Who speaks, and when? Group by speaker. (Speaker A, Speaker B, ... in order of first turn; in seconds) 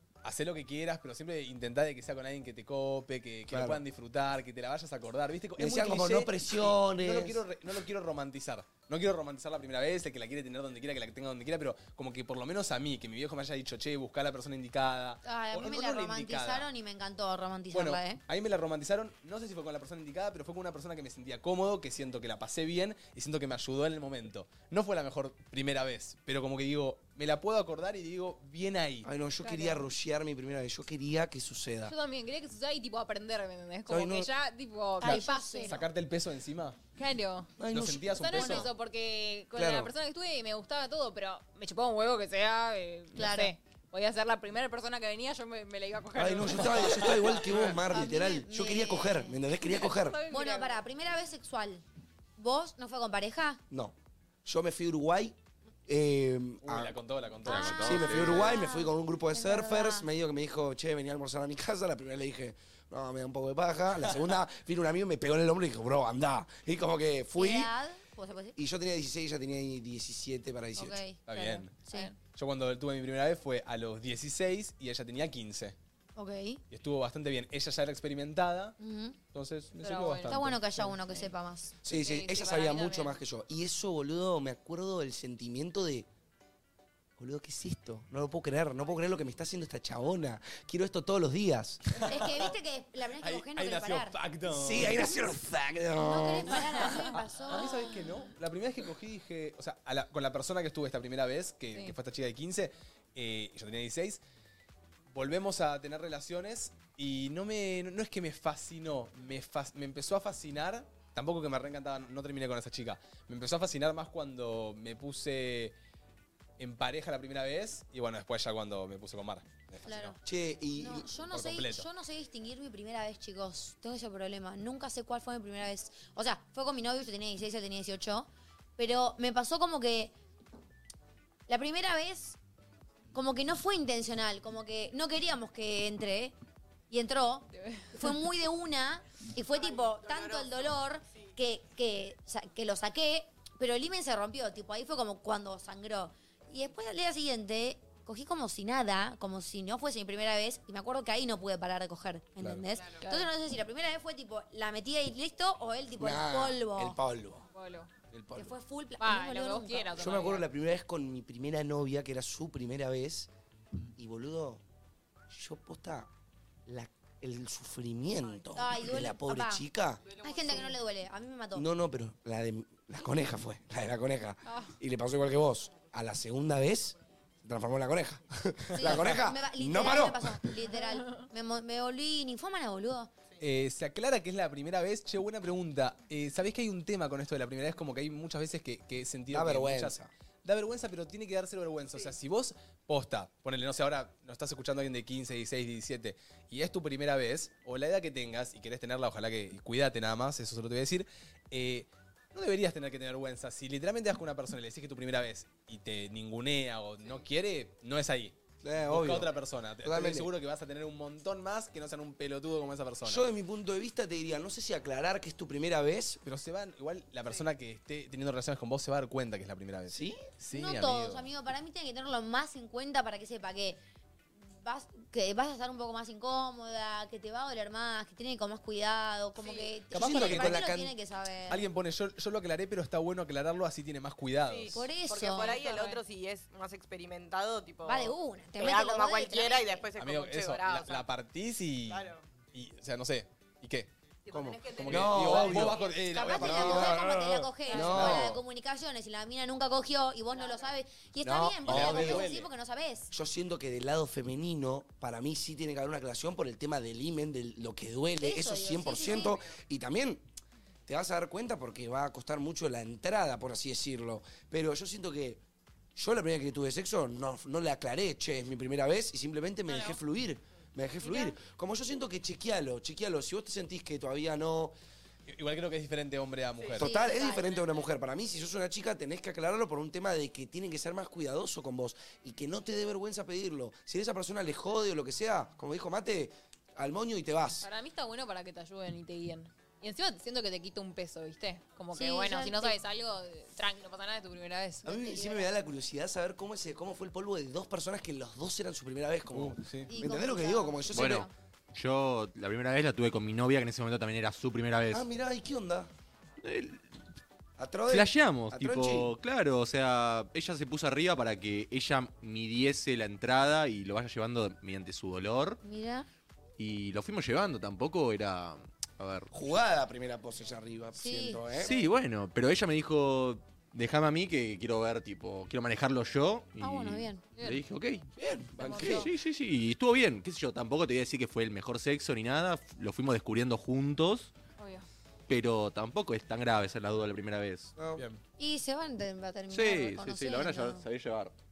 Speaker A: 0.2-16.7, 17.7-29.1, 35.0-36.8, 37.7-38.7, 47.0-47.8, 56.6-58.5, 71.3-71.7, 72.2-75.8, 76.7-78.8, 79.3-81.0, 91.9-92.5, 93.2-95.1, 96.5-104.2, 105.1-115.7, 116.6-120.2, 121.3-121.9, 178.7-179.2, 183.4-213.3, 216.2-221.3, 229.9-230.6, 231.5-234.9, 240.0-243.9, 244.7-248.4, 251.6-252.5, 275.3-276.9, 299.3-299.9
Speaker B: 3.5-3.8, 5.6-7.4, 29.0-31.9, 33.9-34.3, 37.6-38.5, 39.5-39.9, 46.1-50.2, 53.7-67.7, 68.5-71.0, 81.8-86.1, 87.2-92.0, 94.5-97.1, 120.2-121.1, 156.0-157.5, 158.1-158.6, 159.9-163.3, 163.9-164.6, 165.3-166.1, 166.7-170.0, 171.6-180.4, 189.3-190.1, 208.6-210.3, 213.0-216.2, 219.9-220.2, 229.9-230.9, 244.3-248.4, 251.2-252.3, 253.1-260.2, 260.9-265.4, 265.9-274.7, 276.8-287.7, 294.8-301.3, 304.9-305.9, 307.6-309.1, 319.3-321.8, 328.1-329.1, 337.8-338.0
Speaker C: 15.2-18.2, 35.0-35.8, 38.4-38.6, 43.1-43.5, 47.8-49.4, 50.3-51.8, 52.4-53.6, 57.5-60.1, 67.4-68.5, 70.8-71.2, 71.8-72.1, 76.2-76.6, 78.8-79.2, 80.3-81.7, 92.0-94.2, 96.0-98.1, 119.8-120.2, 120.8-130.1, 131.5-132.4, 133.1-136.3, 136.9-157.0, 158.3-160.3, 168.5-169.6, 170.2-171.6, 178.8-183.1, 220.5-223.8, 224.5-231.7, 234.7-235.5, 237.8-239.8, 246.1-253.1, 258.2-259.4, 276.8-277.6, 291.9-292.8, 299.9-301.3, 315.6-316.1, 321.0-321.7, 326.6-327.2, 338.4-340.8
Speaker D: 29.4-29.8, 31.8-35.8, 37.0-37.5, 38.2-47.5, 49.7-50.8, 71.3-72.2, 79.8-80.4, 81.9-83.2, 137.5-138.0, 153.0-153.3, 157.5-157.9, 159.0-160.4, 174.4-174.7, 235.3-236.0, 247.7-247.9, 269.7-270.0, 271.0-271.3, 287.6-295.5, 327.3-327.6, 328.6-329.1, 334.6-334.9
Speaker E: 57.5-58.4, 300.9-305.1, 306.4-307.0, 307.9-315.6, 316.6-319.3, 321.6-328.1, 328.8-334.3, 335.3-337.7, 339.5-341.3
Speaker F: 139.5-141.3, 170.1-170.8, 229.4-229.7, 234.4-241.1, 241.9-242.2, 244.2-246.2, 250.3-250.7